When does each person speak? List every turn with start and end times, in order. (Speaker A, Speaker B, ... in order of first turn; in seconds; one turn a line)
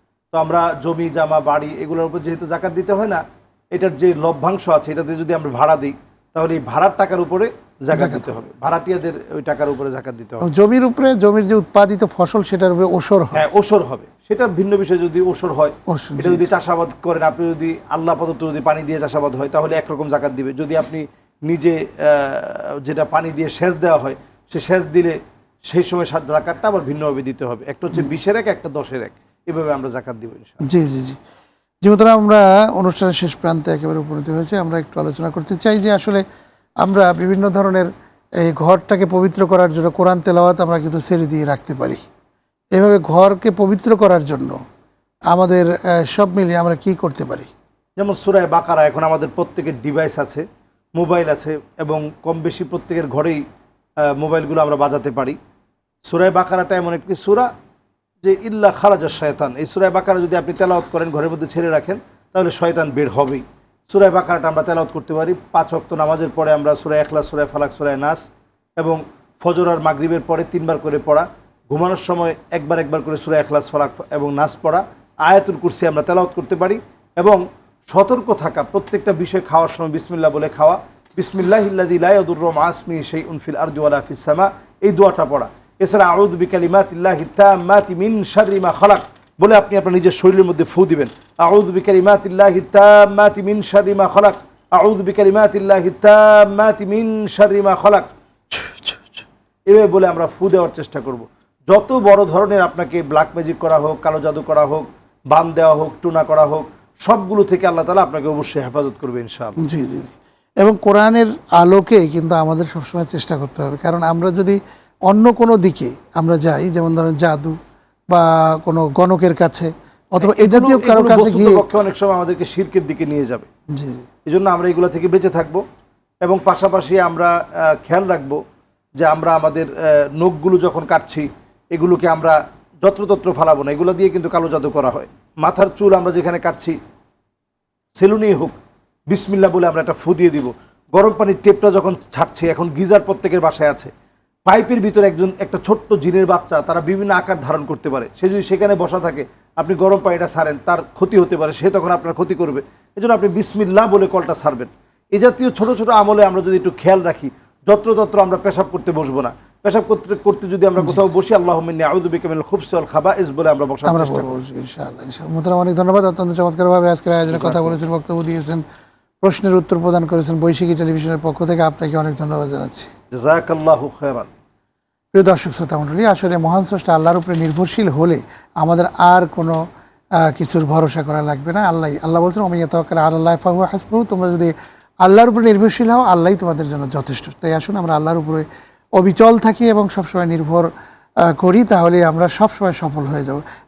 Speaker A: 0.3-10.4
Speaker B: 7.9-8.4
Speaker B: 10.4-13.4
Speaker A: 13.3-30.6
Speaker B: 15.9-16.4
Speaker B: 30.6-31.2
Speaker B: 31.8-36.2
Speaker B: 36.8-42.0
Speaker B: 42.7-44.6
Speaker B: 45.3-47.5
Speaker A: 48.0-53.4
Speaker A: 54.1-55.4
Speaker A: 56.1-57.5
Speaker A: 58.2-68.2
Speaker A: 68.8-109.6
Speaker B: 109.6-117.6
Speaker B: 118.1-121.6
Speaker A: 120.2-123.5
Speaker B: 123.7-124.1
Speaker A: 124.2-125.6
Speaker A: 126.2-128.4
Speaker A: 129.0-136.8
Speaker A: 138.0-138.6
Speaker A: 139.1-143.9
Speaker A: 144.4-164.3
Speaker B: 163.8-168.6
Speaker A: 167.3-167.8
Speaker B: 169.2-172.9
Speaker A: 173.1-174.3
Speaker B: 175.1-179.6
Speaker B: 180.2-188.4
Speaker B: 189.0-190.7
Speaker B: 191.2-193.4